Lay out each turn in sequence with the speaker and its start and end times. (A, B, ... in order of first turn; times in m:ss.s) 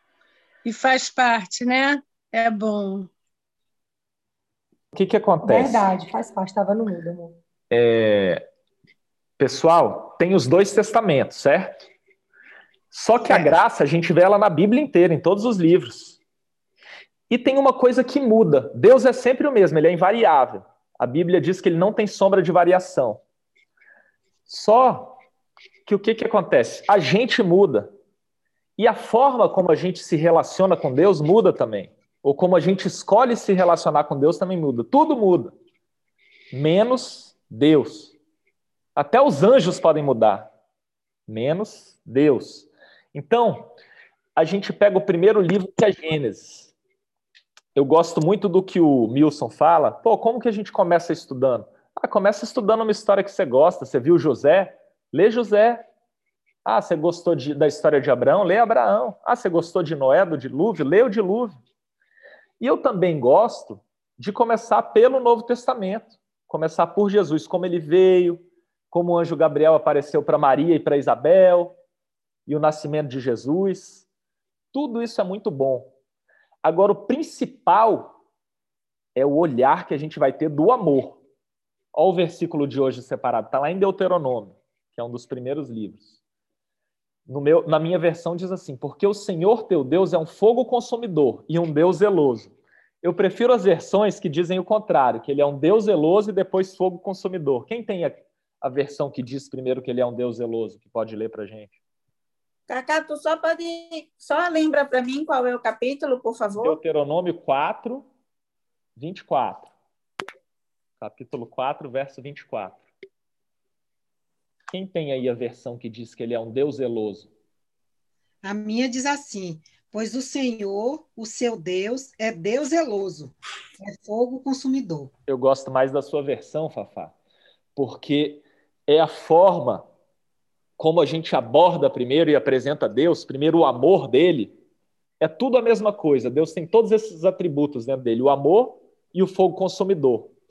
0:00.6-0:03.1 A
0:04.9-0:05.9 B
0:05.4-0:07.4 C
0:07.7-0:08.4 B
0:09.4-0:11.8 B
0:12.9-0:16.2 B
0:17.3-0:23.2 B
0:24.5-0:25.2 B
0:25.8-0:27.9 B
0:28.8-0:35.5 B
0:36.5-0:38.1 B
0:39.0-0:40.5 B
0:41.3-0:43.7 B
0:44.4-0:46.7 B
0:47.7-0:55.8 B
0:56.6-1:01.6 B
1:02.6-1:11.7 B
1:12.5-1:14.0 B
1:14.7-1:15.9 B
1:16.6-1:18.1 B
1:19.2-1:21.2 B
1:21.9-1:26.1 B
1:27.3-1:41.7 B
1:42.7-1:46.8 D
1:46.6-1:48.1 B
1:49.0-1:49.7 B
1:51.0-1:52.8 B
1:54.7-1:57.3 B
1:58.4-2:05.1 E
2:05.3-2:07.1 B
2:07.8-2:09.8 B
2:10.8-2:14.5 B
2:15.2-2:20.3 B